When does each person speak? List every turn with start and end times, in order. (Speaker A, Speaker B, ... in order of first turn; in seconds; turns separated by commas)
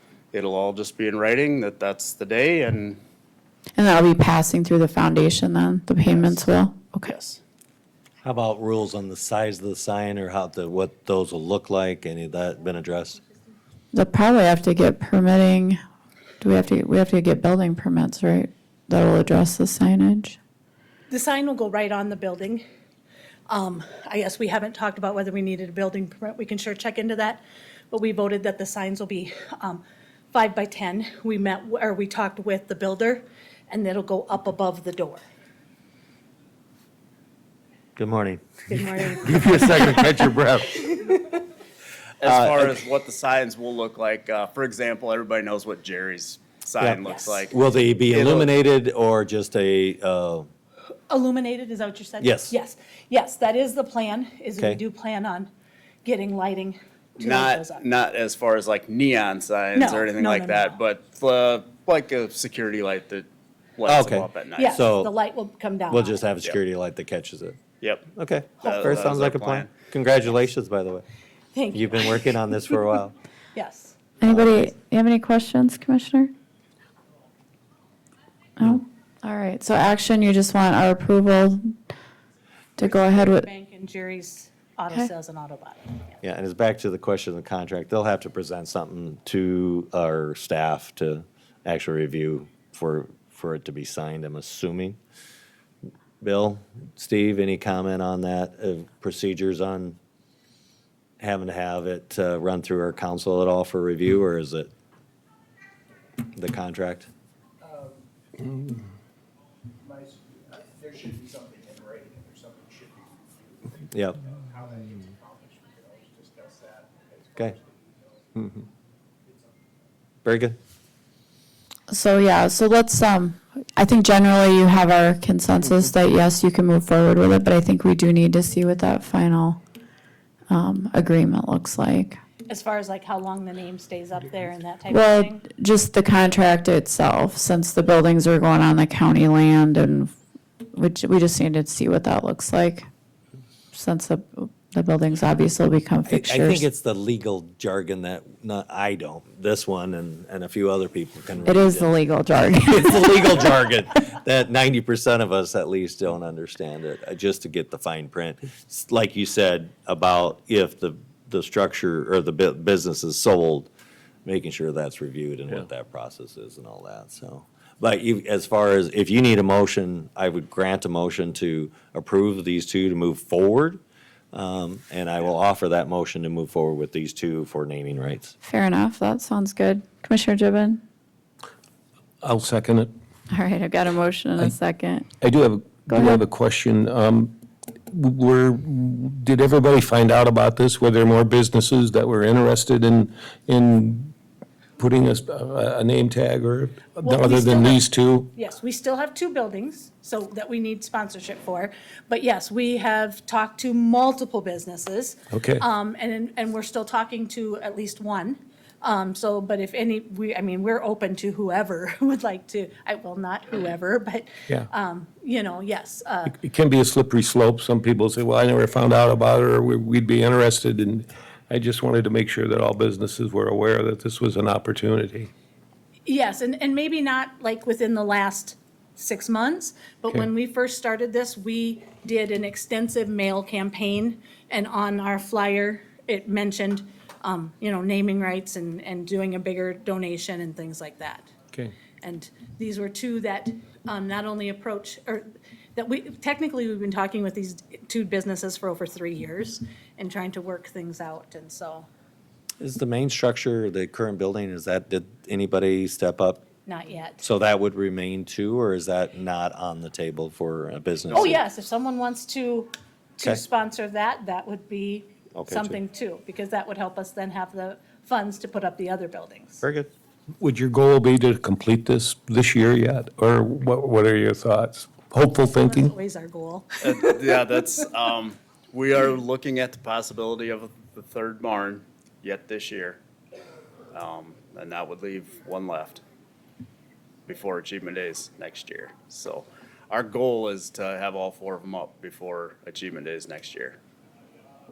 Speaker A: 0.3-3.0, Speaker B: 3.8-7.1, Speaker A: 6.0-6.5, Speaker A: 7.0-7.4, Speaker C: 8.2-13.2, Speaker B: 13.9-15.8, Speaker B: 16.4-20.4, Speaker D: 21.1-22.6, Speaker D: 23.5-35.2, Speaker C: 38.0-41.3, Speaker D: 38.7-40.3, Speaker A: 42.2-47.5, Speaker C: 42.2-42.7, Speaker C: 46.8-50.5, Speaker D: 47.0-47.4, Speaker A: 48.1-48.5, Speaker D: 51.1-55.5, Speaker C: 52.2-52.5, Speaker D: 56.0-57.9, Speaker A: 57.2-64.8, Speaker D: 59.7-60.8, Speaker C: 63.9-65.1, Speaker D: 64.6-66.2, Speaker C: 65.9-67.6, Speaker A: 67.8-68.1, Speaker C: 68.1-71.0, Speaker A: 68.6-69.7, Speaker D: 71.5-72.8, Speaker C: 71.7-73.1, Speaker D: 73.5-74.1, Speaker B: 74.2-76.3, Speaker C: 74.2-74.7, Speaker B: 78.6-81.6, Speaker B: 82.8-83.5, Speaker D: 82.8-86.1, Speaker C: 86.2-95.0, Speaker C: 96.2-100.0, Speaker C: 101.2-104.7, Speaker C: 106.3-107.1, Speaker E: 107.6-108.0, Speaker E: 109.8-118.6, Speaker C: 113.9-114.2, Speaker E: 119.2-119.5, Speaker C: 120.2-120.6, Speaker B: 121.9-129.6, Speaker B: 130.5-132.2, Speaker D: 132.5-135.4, Speaker B: 134.9-140.1, Speaker B: 140.7-142.8, Speaker B: 143.7-146.7, Speaker C: 146.1-151.9, Speaker B: 151.4-153.5, Speaker C: 152.7-163.7, Speaker C: 164.2-173.8, Speaker C: 174.3-178.3, Speaker B: 178.4-180.8, Speaker F: 182.2-182.9, Speaker B: 183.3-185.1, Speaker F: 185.2-187.3, Speaker B: 185.9-186.2, Speaker F: 187.9-194.1, Speaker F: 194.8-198.3, Speaker D: 197.0-216.4, Speaker F: 205.3-205.6, Speaker F: 216.4-225.3, Speaker D: 226.1-241.3, Speaker D: 242.0-251.9, Speaker C: 252.6-256.5, Speaker D: 256.6-257.2, Speaker C: 257.2-261.4, Speaker D: 261.1-269.6, Speaker C: 265.3-265.8, Speaker C: 269.6-269.9, Speaker F: 270.4-275.9, Speaker D: 275.6-277.4, Speaker A: 276.8-283.0, Speaker A: 283.9-286.0, Speaker A: 287.3-293.8